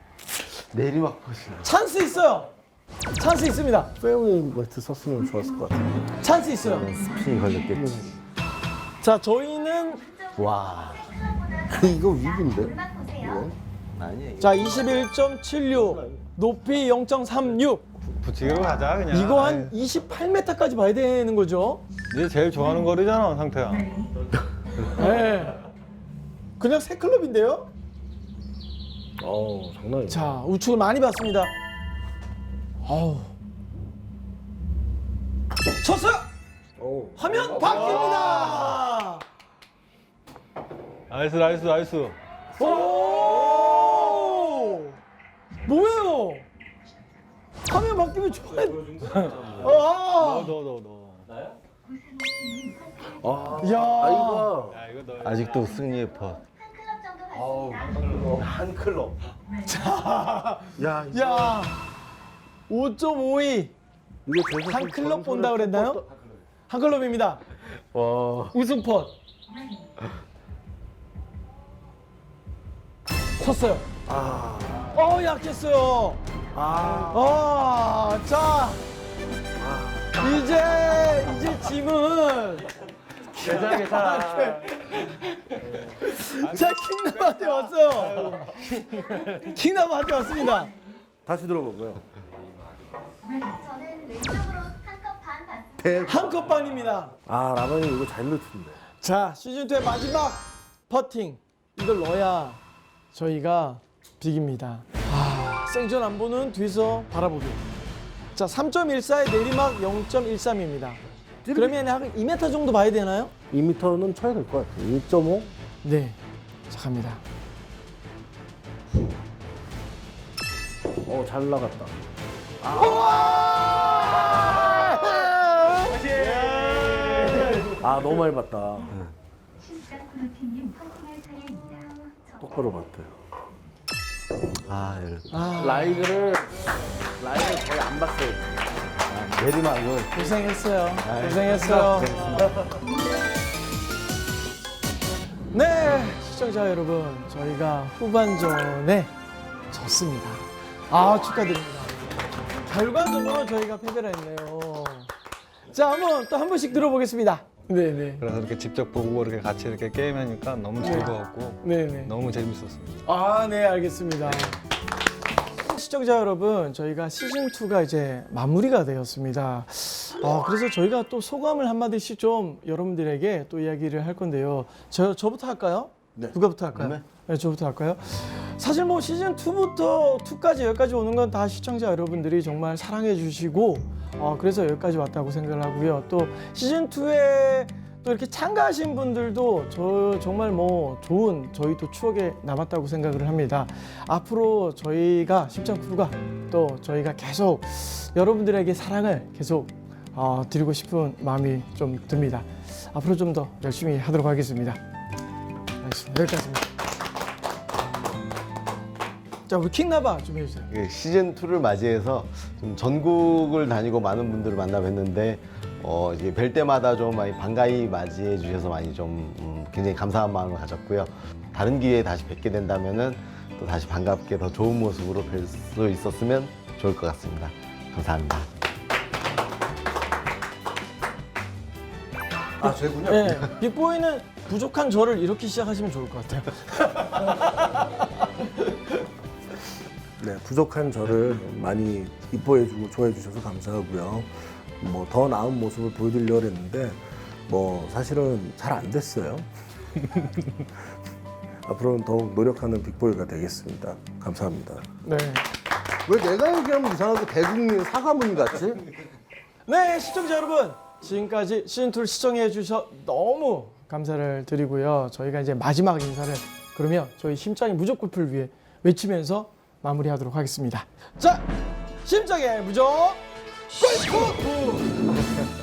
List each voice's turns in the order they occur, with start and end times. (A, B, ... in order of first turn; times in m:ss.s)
0:00.5-0:01.7 A
0:01.6-0:02.5 B
0:03.2-0:03.9 B
0:04.0-0:06.1 C
0:06.2-0:07.0 B
0:06.6-0:08.1 A
0:07.8-0:08.1 C
0:09.0-0:10.1 B
0:10.4-0:11.2 A
0:10.6-0:13.4 D
0:11.7-0:13.6 C
0:13.9-0:15.0 A
0:14.4-0:17.8 B
0:15.8-0:16.2 C
0:18.0-0:19.8 E
0:19.1-0:21.8 B
0:22.1-0:24.1 E
0:24.8-0:25.6 B
0:26.6-0:27.7 B
0:29.2-0:30.4 C
0:30.1-0:31.5 B
0:32.8-0:33.3 B
0:35.8-0:36.3 B
0:36.8-0:37.5 C
0:37.2-0:39.2 B
0:37.9-0:38.6 E
0:41.1-0:42.2 E
0:42.6-0:45.0 B
0:45.7-0:46.5 B
0:47.6-0:49.0 B
0:49.0-0:51.3 E
0:49.6-0:50.5 B
0:52.2-0:53.0 D
0:53.0-0:54.8 C
0:53.6-0:54.5 B
0:54.7-0:55.8 E
0:55.2-0:56.4 A
0:56.6-0:57.8 D
0:58.2-0:59.2 A
0:59.6-1:01.8 B
1:00.8-1:01.6 C
1:02.7-1:03.7 B
1:04.2-1:06.1 C
1:04.6-1:06.0 B
1:06.7-1:07.4 B
1:07.8-1:08.6 A
1:08.5-1:09.1 B
1:13.4-1:13.9 B
1:14.1-1:14.9 C
1:14.9-1:16.2 B
1:16.5-1:17.3 C
1:17.0-1:18.8 B
1:19.6-1:20.1 C
1:20.2-1:22.7 B
1:23.3-1:25.3 B
1:23.4-1:24.6 C
1:26.0-1:30.7 B
1:26.4-1:28.5 E
1:31.3-1:32.1 C
1:33.4-1:35.7 D
1:35.8-1:36.4 C
1:36.0-1:37.1 B
1:37.3-1:38.8 C
1:39.0-1:42.6 B
1:43.1-1:47.7 B
1:48.4-1:51.0 B
1:51.4-1:51.8 C
1:51.5-1:53.3 B
1:53.5-1:55.5 C
1:55.8-1:57.2 B
2:01.0-2:02.0 C
2:02.6-2:03.2 C
2:02.7-2:07.5 B
2:06.2-2:07.7 E
2:07.8-2:09.0 C
2:09.8-2:12.1 D
2:12.3-2:13.2 C
2:14.6-2:15.3 A
2:15.3-2:16.2 B
2:15.6-2:16.6 C
2:17.2-2:18.4 C
2:19.1-2:20.4 A
2:20.1-2:22.2 B
2:21.0-2:22.5 A
2:25.5-2:29.1 B
2:29.7-2:32.0 B
2:32.6-2:35.1 B
2:35.7-2:38.2 B
2:38.2-2:43.0 E
2:40.8-2:42.1 B
2:43.0-2:44.6 B
2:44.3-2:44.6 E
2:45.6-3:24.8 B
2:56.7-2:57.0 A
3:25.8-3:26.7 B
3:29.5-3:30.7 B
3:30.7-3:48.5 A
3:52.6-3:53.4 C
3:52.6-3:57.7 B
4:00.2-4:09.5 C
4:10.0-4:10.9 C
4:11.6-4:14.9 C
4:15.0-4:15.5 B
4:16.1-4:18.9 C
4:19.7-4:31.5 B
4:32.0-4:34.7 B